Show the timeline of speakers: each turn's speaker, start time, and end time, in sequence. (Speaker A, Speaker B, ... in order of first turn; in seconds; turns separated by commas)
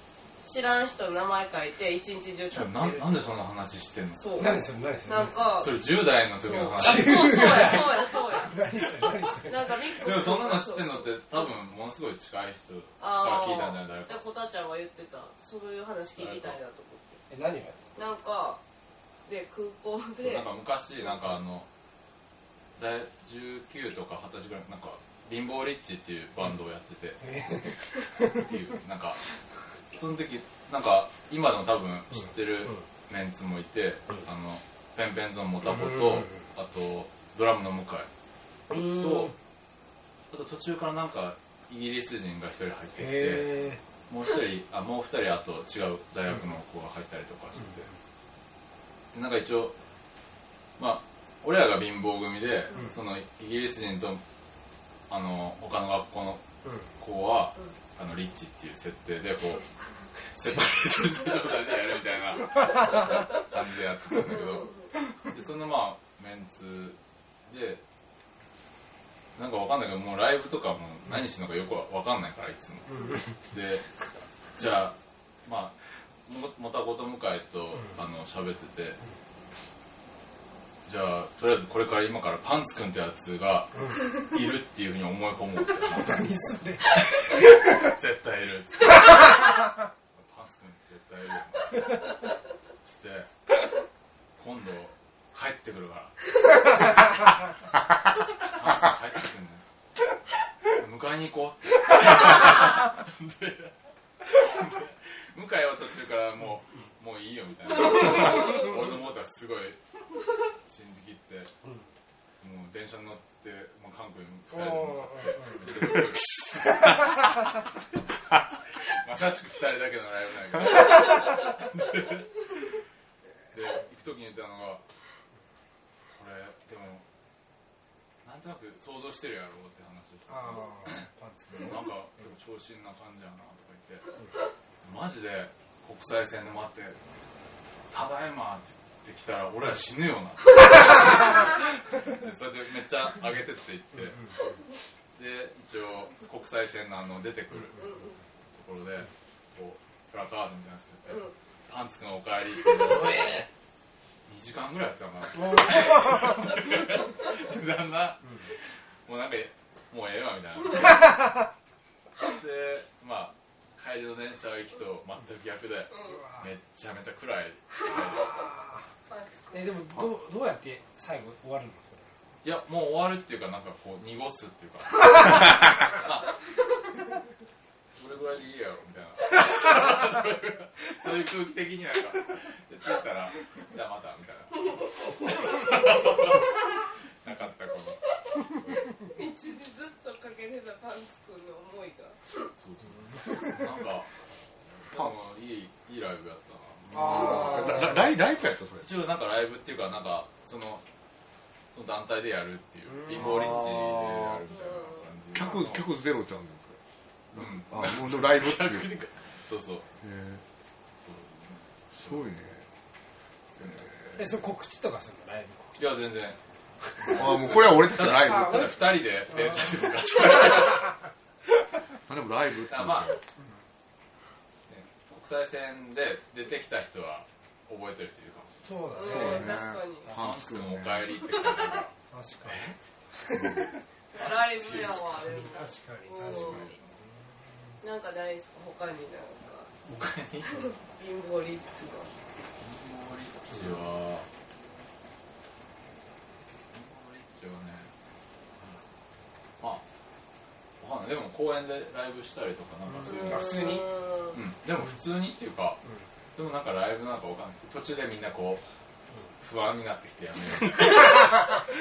Speaker A: 0.4-3.4, Speaker B: 2.5-4.6, Speaker A: 4.2-5.9, Speaker C: 4.4-5.5, Speaker B: 5.6-8.1, Speaker A: 6.4-8.6, Speaker C: 6.8-9.8, Speaker A: 9.4-11.5, Speaker B: 9.9-14.2, Speaker A: 13.0-17.2, Speaker B: 16.2-16.6, Speaker C: 17.3-17.9, Speaker A: 17.9-18.6, Speaker A: 19.3-21.4, Speaker B: 20.2-21.7, Speaker B: 22.8-27.2, Speaker C: 27.2-28.4, Speaker B: 28.2-29.2, Speaker B: 29.9-38.1, Speaker C: 35.6-36.4, Speaker C: 38.7-39.3, Speaker B: 38.8-39.3, Speaker B: 40.3-47.9, Speaker C: 43.0-43.8, Speaker B: 49.1-49.8, Speaker B: 50.8-54.2, Speaker B: 55.1-56.4, Speaker C: 56.6-56.9, Speaker B: 57.0-59.6, Speaker B: 60.4-67.8, Speaker A: 64.3-64.9, Speaker B: 69.4-73.8, Speaker C: 72.9-73.3, Speaker B: 74.6-79.0, Speaker B: 80.9-86.3, Speaker C: 83.7-84.1, Speaker C: 85.9-87.9, Speaker B: 86.9-89.4, Speaker B: 90.2-92.0, Speaker B: 92.8-93.3, Speaker B: 94.4-96.2, Speaker B: 98.5-99.6, Speaker B: 100.7-103.7, Speaker B: 104.3-109.8, Speaker B: 110.6-111.5, Speaker B: 112.4-117.5, Speaker C: 114.5-115.7, Speaker B: 118.9-122.3, Speaker B: 123.5-124.8, Speaker B: 126.1-127.0, Speaker B: 128.2-134.1, Speaker C: 130.3-131.7, Speaker B: 134.8-137.0, Speaker B: 137.9-144.3, Speaker B: 145.2-147.9, Speaker A: 147.8-148.2, Speaker B: 148.5-153.2, Speaker A: 151.1-151.3, Speaker C: 152.9-153.5, Speaker B: 154.3-158.3, Speaker C: 155.4-156.1, Speaker C: 158.2-158.5, Speaker B: 159.1-161.1, Speaker B: 162.2-168.4, Speaker A: 165.9-166.2, Speaker C: 166.1-166.5, Speaker C: 167.9-168.9, Speaker A: 169.1-169.7, Speaker C: 169.5-172.1, Speaker B: 172.4-176.3, Speaker B: 178.0-186.5, Speaker A: 185.3-186.0, Speaker B: 187.2-188.0, Speaker A: 189.0-192.2, Speaker B: 192.6-194.1, Speaker C: 192.9-193.5, Speaker B: 194.8-197.7, Speaker C: 196.9-198.1, Speaker D: 196.9-198.9, Speaker A: 197.1-197.8, Speaker B: 198.7-200.8, Speaker B: 201.7-205.9, Speaker C: 202.9-203.5, Speaker D: 203.1-204.4, Speaker A: 204.5-205.0, Speaker D: 205.3-206.8, Speaker D: 207.3-208.9, Speaker B: 207.3-209.9, Speaker D: 210.0-210.4, Speaker B: 211.0-212.3, Speaker D: 211.9-212.7, Speaker B: 213.6-214.4, Speaker C: 214.2-215.8, Speaker B: 215.8-216.4, Speaker B: 217.0-220.9, Speaker D: 217.1-218.9, Speaker C: 218.1-219.7, Speaker D: 222.1-223.2, Speaker B: 222.7-223.2, Speaker B: 224.7-229.2, Speaker C: 228.6-229.5, Speaker A: 229.0-230.2, Speaker D: 229.0-231.2, Speaker B: 230.1-231.9, Speaker A: 231.2-231.8, Speaker C: 232.1-233.8, Speaker B: 232.5-232.8, Speaker D: 233.3-233.7, Speaker B: 234.1-235.4, Speaker A: 234.1-236.6, Speaker C: 235.3-237.8, Speaker B: 236.2-237.0, Speaker A: 237.8-239.8, Speaker B: 239.9-240.7, Speaker A: 240.4-242.1, Speaker B: 242.6-244.3, Speaker B: 246.7-247.9, Speaker B: 250.8-253.7, Speaker C: 252.9-253.9, Speaker A: 253.0-254.3, Speaker B: 254.3-255.8, Speaker B: 256.3-258.6, Speaker B: 259.4-261.4